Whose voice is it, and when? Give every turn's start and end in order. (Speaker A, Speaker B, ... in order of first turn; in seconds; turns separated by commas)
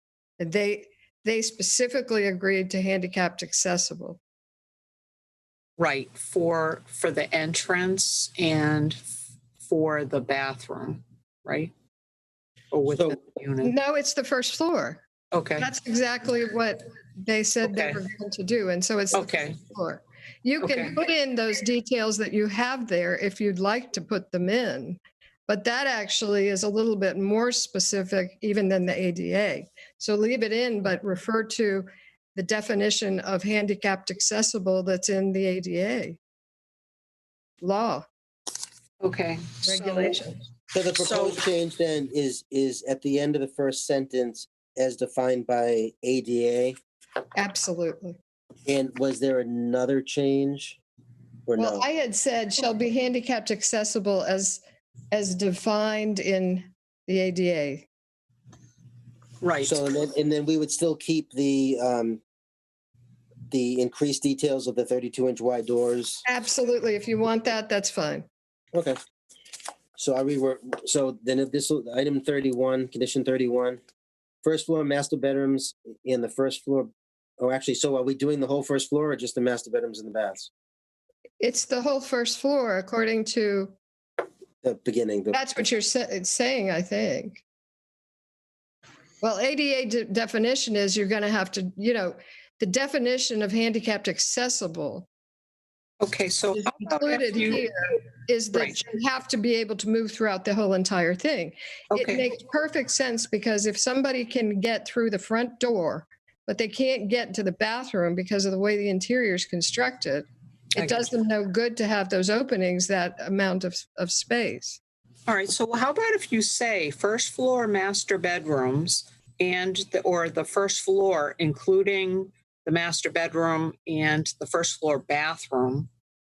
Speaker A: 0.4-4.2, Speaker B: 5.8-9.0, Speaker B: 9.6-11.7, Speaker B: 12.7-13.7, Speaker A: 13.6-15.0, Speaker B: 15.3-15.7, Speaker A: 15.6-36.2, Speaker B: 17.6-18.0, Speaker B: 19.1-19.6, Speaker B: 20.6-20.9, Speaker A: 37.6-38.1, Speaker B: 39.0-40.2, Speaker A: 39.6-40.4, Speaker C: 40.8-46.8, Speaker B: 41.0-41.4, Speaker A: 47.4-48.2, Speaker C: 48.7-50.8, Speaker C: 51.5-51.9, Speaker A: 51.6-57.9, Speaker B: 59.4-59.8, Speaker C: 59.6-62.2, Speaker C: 63.5-66.2, Speaker A: 66.3-68.2, Speaker C: 70.0-73.8, Speaker C: 74.4-80.5, Speaker A: 81.4-83.7, Speaker C: 84.6-85.5, Speaker A: 85.3-87.4, Speaker A: 89.2-95.1, Speaker B: 96.0-97.7, Speaker A: 96.5-114.8, Speaker B: 98.5-98.8, Speaker B: 101.9-102.2, Speaker B: 110.8-111.0, Speaker B: 115.3-125.9